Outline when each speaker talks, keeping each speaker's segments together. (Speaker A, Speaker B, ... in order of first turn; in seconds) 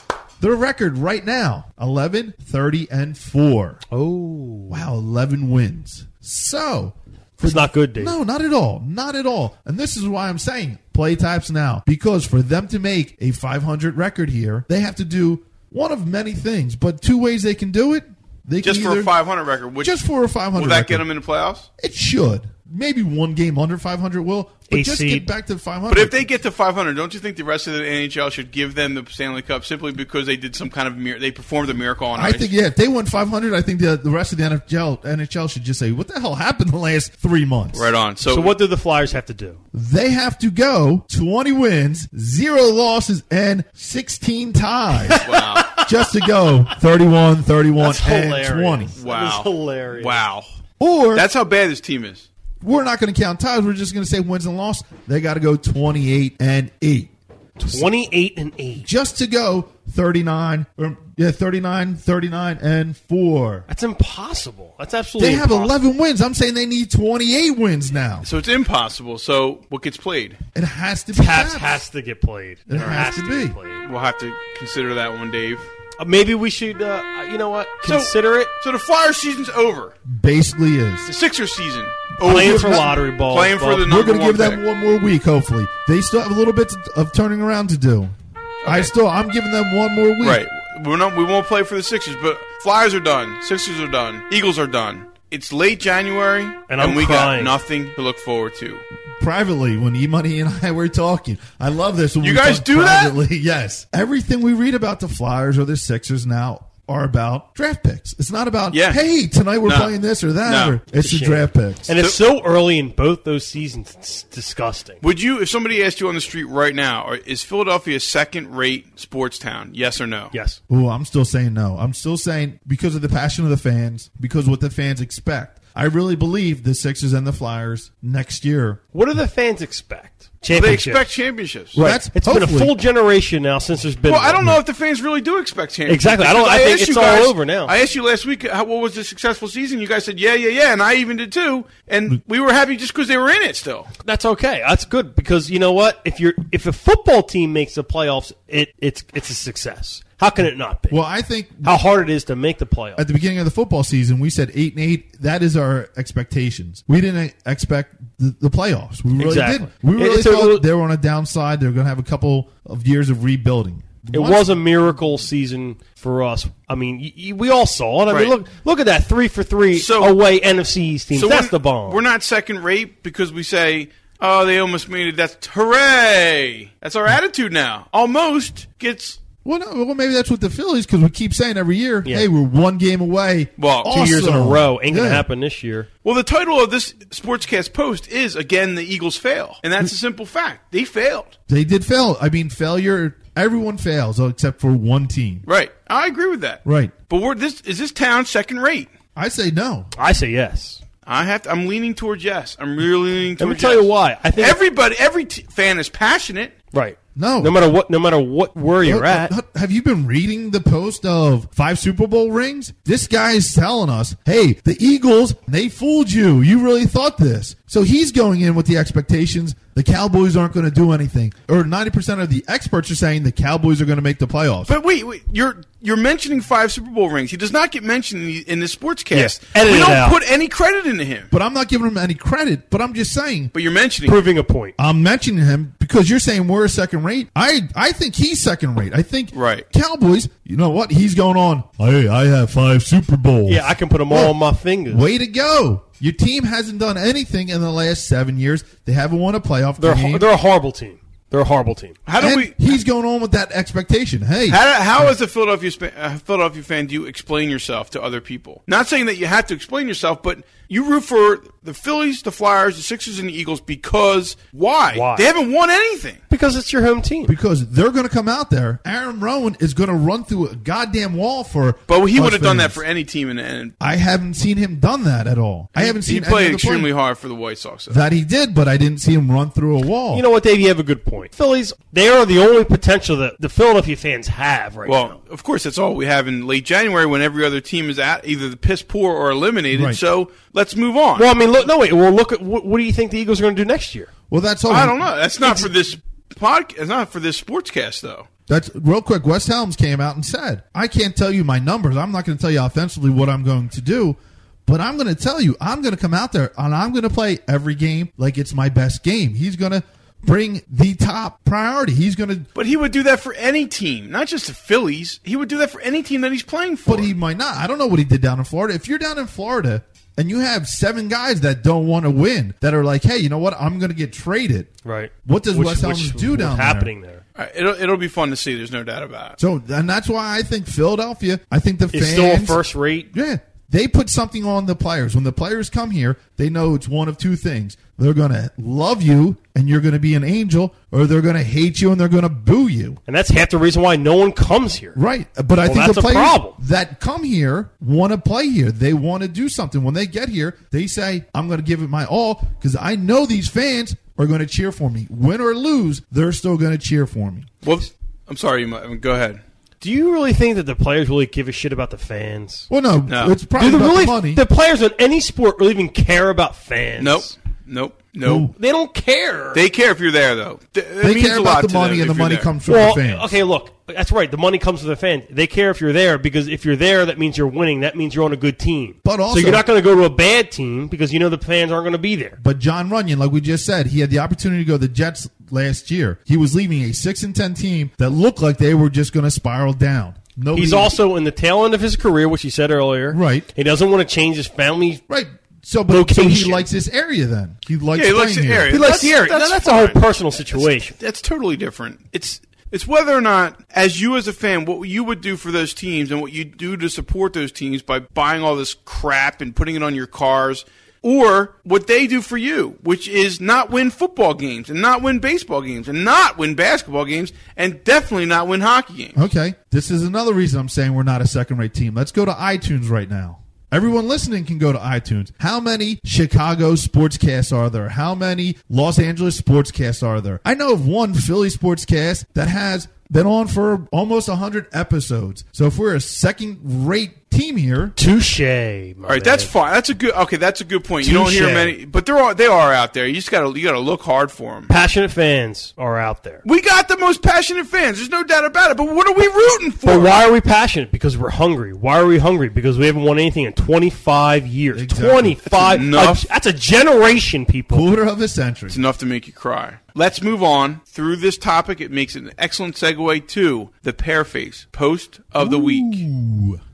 Speaker A: 0.4-3.8, 4.7-19.1, 19.8-21.1, 21.8-26.2, 32.1-37.9, 39.7-48.9, 50.8-51.3, 52.6-57.1, 58.8-63.7, 65.2-68.3, 70.5-71.8, 72.7-73.6, 80.1-81.1, 82.2-83.0, 83.8-88.1, 88.7-90.4, 99.2-111.9, 120.7-128.8, 131.8-132.8, 150.9-151.8, 153.0-164.6, 179.4-185.3, 191.5-195.4, 196.7-196.9, 199.2-199.9, 207.2-207.6, 208.8-224.7, 231.3-233.5, 234.8-244.4, 244.9-250.3, 252.2-255.1, 267.3-272.8, 273.8-276.9, 277.9-280.2, 289.7-290.0, 294.3-295.1, 298.5-312.5, 316.9-324.7, 325.2-326.9, 329.4-343.0, 345.0-357.5, 362.7-364.4, 368.2-368.5, 371.0-373.4, 379.1-379.6, 382.4-390.9, 393.1-393.5, 395.1-398.7, 419.1-437.9, 454.7-455.8, 457.7-458.8, 465.4-466.6
Speaker B: 3.9-4.8, 7.4-8.2, 24.7-25.3, 38.2-39.6, 45.0-46.5, 47.8-50.2, 57.6-58.9, 63.7-65.8, 71.1-73.8, 76.0-78.5, 82.2-83.9, 96.7-97.6, 111.0-115.0, 120.3-120.6, 128.9-131.1, 131.7-134.5, 135.9-137.7, 144.0-151.0, 151.6-153.0, 159.2-160.7, 164.1-172.0, 183.9-185.9, 200.0-200.8, 203.4-204.6, 206.7-209.3, 229.1-230.2, 234.1-234.8, 243.5-245.1, 249.8-252.0, 264.9-265.3, 266.3-267.3, 280.1-285.2, 291.2-294.1, 324.8-327.2, 331.9-333.1, 343.1-345.0, 345.6-346.6, 359.8-362.7, 363.6-367.3, 368.6-369.6, 372.7-382.4, 390.5-395.0, 395.9-396.7, 398.7-401.0, 438.0-439.5, 441.0-441.8, 444.7-446.4, 449.8-457.9
Speaker C: 18.6-20.0, 20.5-21.7, 25.9-32.5, 37.7-38.6, 45.1-45.8, 49.0-50.5, 51.1-52.3, 68.2-70.4, 73.8-75.7, 77.8-79.9, 81.1-84.6, 88.6-88.9, 90.2-98.8, 102.2-103.2, 108.7-109.0, 109.6-110.8, 115.0-120.3, 130.5-131.8, 134.1-143.9, 168.1-168.3, 169.7-170.2, 171.1-179.2, 183.6-184.0, 186.0-191.3, 195.5-198.9, 201.1-206.6, 224.7-231.3, 233.5-234.2, 239.3-239.7, 252.1-252.7, 254.5-266.2, 271.9-273.7, 275.8-278.0, 284.9-291.3, 294.7-298.3, 312.6-317.1, 327.4-329.4, 357.6-359.4, 363.1-363.4, 367.0-368.5, 369.5-372.5, 397.9-419.2, 439.1-444.7, 446.4-450.2, 455.5-456.3, 458.7-466.0